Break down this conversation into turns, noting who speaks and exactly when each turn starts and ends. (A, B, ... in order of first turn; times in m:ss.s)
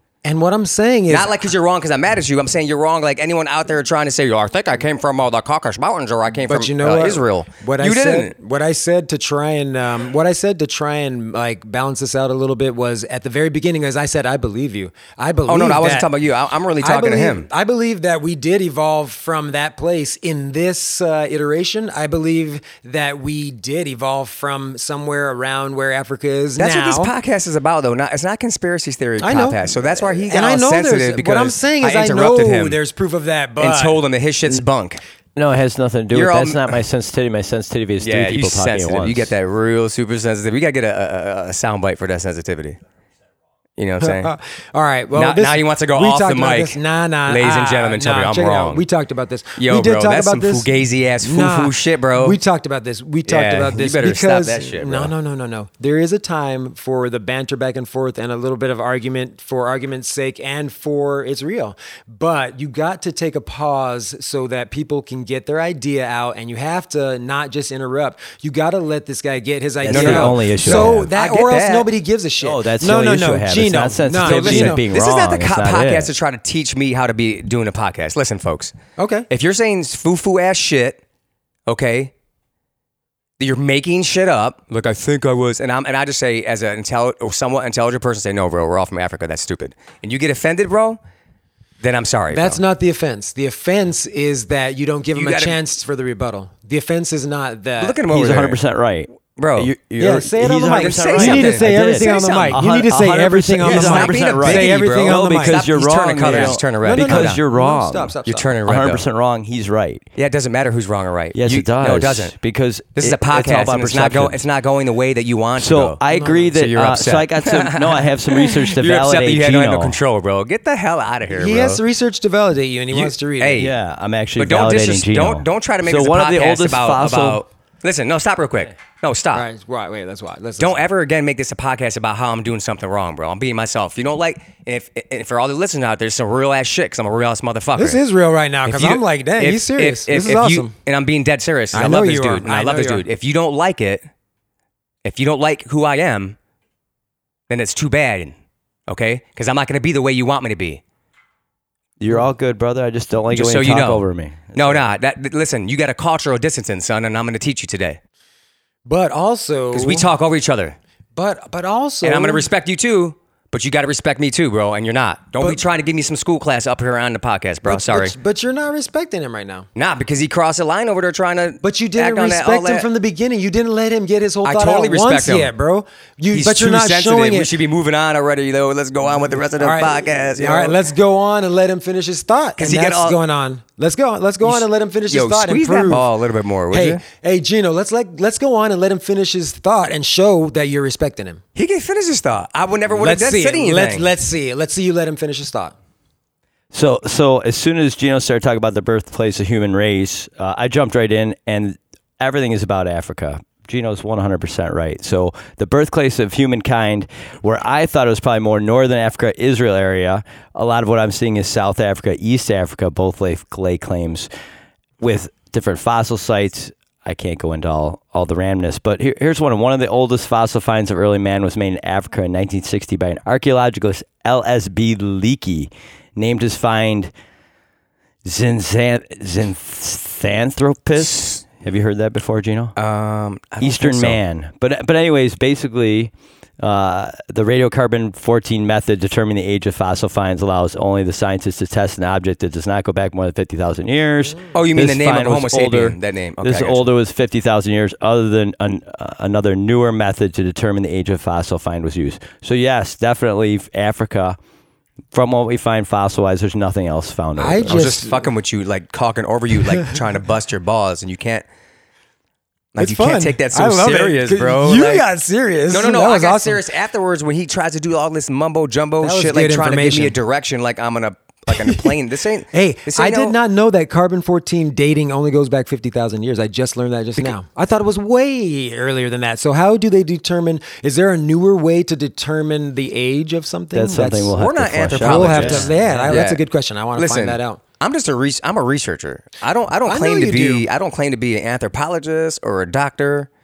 0:00.2-0:01.5 A
0:01.1-0:08.3 B
0:06.4-0:16.1 A
0:15.5-0:17.5 B
0:16.8-0:27.1 A
0:26.6-0:32.8 B
0:29.2-0:34.0 A
0:33.6-0:35.0 B
0:35.4-0:39.3 C
0:36.1-0:36.8 B
0:38.0-0:42.8 B
0:43.8-0:44.3 B
0:44.0-1:14.8 A
0:45.1-0:48.8 B
0:49.6-0:52.4 B
0:53.3-0:55.1 B
1:09.8-1:11.1 C
1:09.9-1:11.9 B
1:12.4-1:16.1 C
1:14.2-1:18.7 B
1:19.0-1:19.3 A
1:19.3-1:21.0 B
1:21.7-1:22.1 B
1:23.4-1:31.0 B
1:31.8-1:32.6 B
1:32.3-1:38.0 A
1:35.1-1:35.6 B
1:37.8-1:38.6 B
1:38.1-1:48.1 C
1:39.4-1:39.7 B
1:40.0-1:45.7 A
1:40.8-1:42.6 B
1:43.6-1:47.4 B
1:46.2-1:48.5 A
1:48.3-1:49.0 B
1:48.7-1:50.1 C
1:50.2-1:52.4 B
1:51.4-1:54.4 C
1:53.0-1:56.0 B
1:55.6-2:00.0 C
1:56.1-1:56.6 A
1:56.5-2:01.8 B
2:01.3-2:03.7 A
2:02.9-2:03.7 B
2:03.6-2:07.4 C
2:04.4-2:09.5 B
2:09.3-2:10.8 A
2:10.6-2:18.0 B
2:17.8-2:20.7 A
2:18.7-2:24.0 B
2:21.7-2:23.0 A
2:25.0-2:26.4 B
2:27.5-2:28.4 B
2:28.9-2:30.8 B
2:32.0-2:34.8 C
2:33.3-2:38.0 B
2:38.9-2:40.1 A
2:39.7-2:40.8 B
2:41.2-2:42.5 A
2:42.0-2:48.2 B
2:47.6-2:49.7 A
2:49.8-2:52.9 B
2:51.6-2:57.5 A
2:54.4-2:55.5 B
2:56.3-3:00.8 B
2:59.6-3:06.1 A
3:02.6-3:03.2 B
3:04.4-3:07.0 B
3:06.7-3:11.4 A
3:11.6-3:14.1 B
3:12.9-3:15.8 A
3:16.7-3:34.3 C
3:35.0-3:47.1 C
3:48.2-3:52.8 C
3:51.0-3:51.4 B
3:52.8-3:54.2 B
3:53.6-4:14.4 C
4:04.5-4:06.9 B
4:15.1-4:17.9 C
4:17.4-4:18.3 A
4:17.7-4:21.4 B
4:22.8-4:25.1 B
4:22.8-4:26.6 A
4:25.7-4:33.4 B
4:29.0-4:30.2 A
4:31.5-4:32.0 A
4:32.5-4:44.4 A
4:43.7-4:46.1 C
4:44.4-4:46.4 B
4:45.0-4:47.6 A
4:47.0-4:53.3 B
4:49.8-4:50.7 A